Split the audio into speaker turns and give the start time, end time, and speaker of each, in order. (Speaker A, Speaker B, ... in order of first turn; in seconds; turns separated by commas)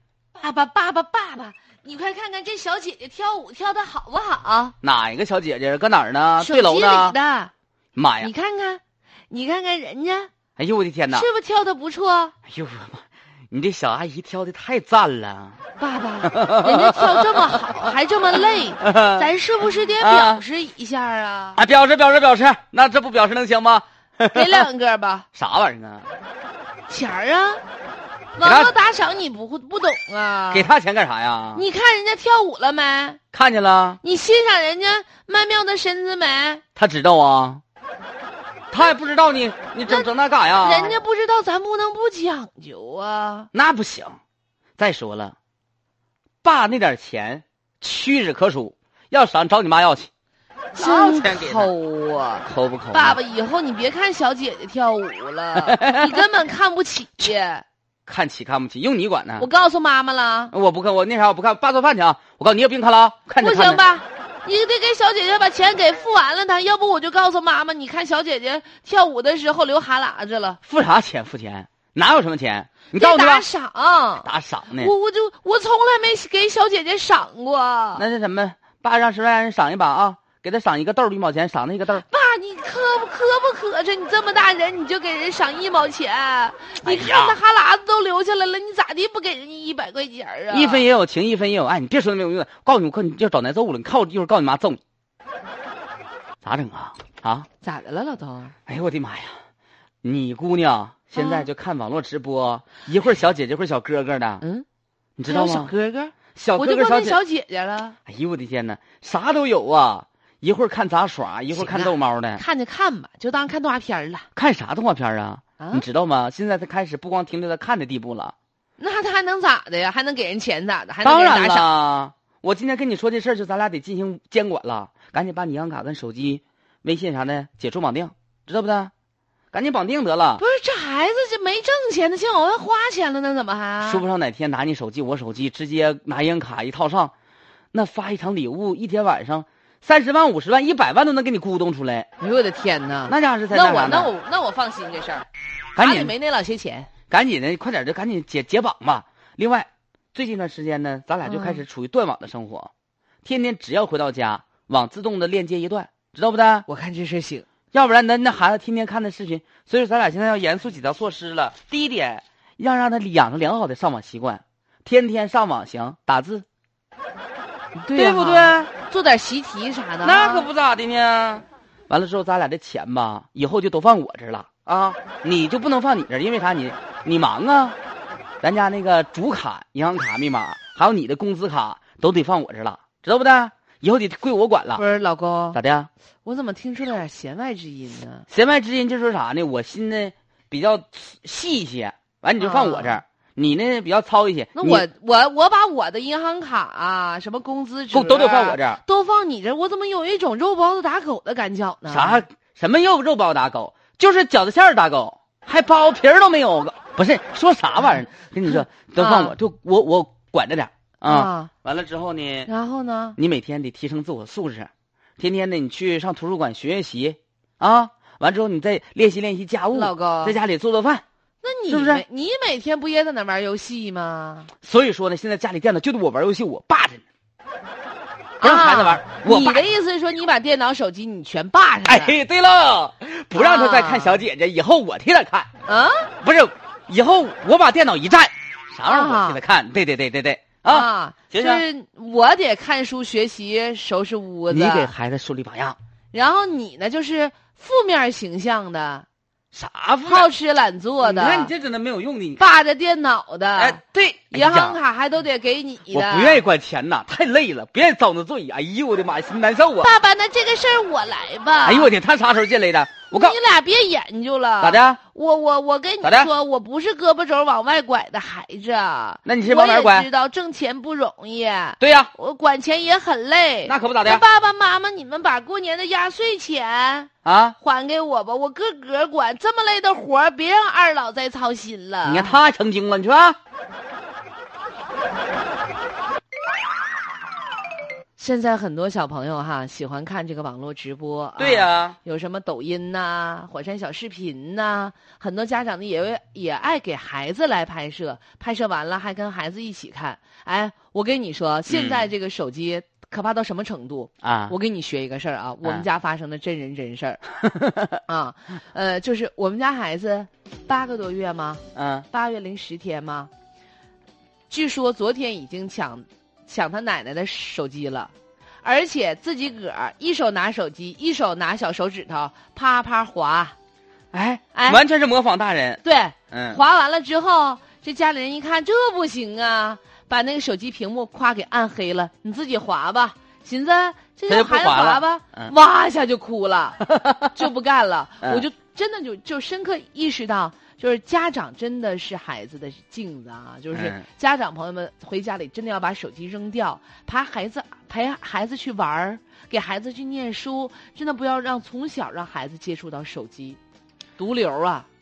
Speaker A: 0.3-4.8, Speaker B: 4.8-7.2, Speaker A: 6.4-7.5, Speaker B: 8.0-8.3, Speaker A: 8.2-10.3, Speaker B: 10.6-11.3, Speaker A: 11.1-12.3, Speaker B: 12.5-15.6, Speaker A: 15.8-21.6, Speaker B: 16.3-17.9, Speaker B: 18.8-19.3, Speaker B: 20.0-20.4, Speaker B: 21.6-24.6, Speaker A: 24.3-25.3, Speaker B: 25.4-26.1, Speaker A: 26.9-27.6, Speaker A: 28.4-30.7, Speaker B: 28.4-28.7, Speaker B: 30.5-31.6, Speaker A: 31.6-33.2, Speaker B: 33.3-34.0, Speaker A: 34.0-36.6, Speaker B: 36.8-37.6, Speaker B: 38.7-41.0, Speaker A: 40.6-43.5, Speaker B: 43.5-44.2, Speaker B: 44.8-45.4, Speaker B: 46.4-50.1, Speaker A: 50.8-57.6, Speaker B: 50.8-51.7, Speaker B: 52.5-53.2, Speaker B: 55.6-56.2, Speaker B: 58.1-59.5, Speaker A: 59.4-60.5, Speaker B: 60.5-63.8, Speaker A: 63.4-70.6, Speaker B: 70.7-73.5, Speaker A: 73.0-78.0, Speaker B: 74.2-74.9, Speaker B: 78.0-82.0, Speaker A: 82.0-90.8, Speaker B: 86.8-87.4, Speaker B: 90.5-94.8, Speaker B: 96.4-97.5, Speaker A: 97.6-98.5, Speaker B: 98.7-99.4, Speaker B: 100.0-104.4, Speaker A: 101.2-101.5, Speaker A: 104.4-104.7, Speaker B: 105.2-105.7, Speaker A: 105.3-108.0, Speaker B: 106.3-107.2, Speaker B: 108.1-112.4, Speaker A: 111.5-114.3, Speaker B: 114.3-118.3, Speaker A: 115.6-115.8, Speaker A: 118.8-121.7, Speaker B: 121.0-128.9, Speaker B: 129.5-130.4, Speaker A: 130.4-134.0, Speaker B: 133.8-137.1, Speaker B: 137.7-142.1, Speaker A: 142.2-146.9, Speaker B: 143.1-144.1, Speaker B: 145.8-146.1, Speaker B: 147.1-152.7, Speaker A: 151.2-151.6, Speaker B: 153.2-156.7, Speaker A: 156.7-157.5, Speaker B: 157.7-166.4, Speaker A: 167.8-170.5, Speaker B: 168.0-168.7, Speaker B: 170.0-177.8, Speaker B: 178.4-184.8, Speaker A: 184.8-185.6, Speaker B: 185.5-185.9, Speaker A: 186.2-188.3, Speaker B: 188.3-194.9, Speaker A: 192.4-193.0, Speaker A: 194.6-202.2, Speaker B: 197.9-198.8, Speaker B: 201.9-212.5, Speaker A: 208.5-209.3, Speaker A: 211.1-211.5, Speaker A: 212.5-213.2, Speaker B: 213.2-221.0, Speaker A: 219.7-220.4, Speaker A: 221.4-224.5, Speaker B: 221.7-222.0, Speaker B: 224.6-227.0, Speaker A: 228.4-232.2, Speaker B: 228.4-229.7, Speaker B: 231.9-235.5, Speaker A: 233.3-234.2, Speaker A: 235.7-236.1, Speaker B: 236.2-241.6, Speaker A: 238.9-239.4, Speaker A: 240.7-244.9, Speaker B: 244.5-245.8, Speaker A: 246.1-249.1, Speaker B: 249.5-250.3, Speaker A: 250.0-251.5, Speaker B: 251.0-252.5, Speaker A: 252.4-253.8, Speaker B: 253.6-254.8, Speaker A: 254.3-256.4, Speaker B: 255.9-259.9, Speaker A: 259.8-261.9, Speaker B: 261.6-263.4, Speaker A: 263.1-282.4, Speaker B: 264.6-265.0, Speaker B: 266.0-266.3, Speaker B: 269.3-270.1, Speaker B: 271.8-272.1, Speaker B: 273.7-274.2, Speaker B: 277.2-277.6, Speaker B: 282.0-283.4, Speaker A: 288.2-307.2, Speaker B: 291.4-292.0, Speaker B: 301.7-302.1, Speaker B: 304.2-304.6, Speaker B: 307.5-307.9, Speaker A: 308.1-313.3, Speaker B: 311.8-312.1, Speaker A: 314.5-318.1, Speaker A: 318.6-323.6, Speaker B: 324.1-326.6, Speaker A: 324.5-324.8, Speaker A: 325.8-353.6, Speaker B: 334.3-335.5, Speaker B: 337.0-337.2, Speaker B: 343.7-344.1, Speaker A: 354.2-354.9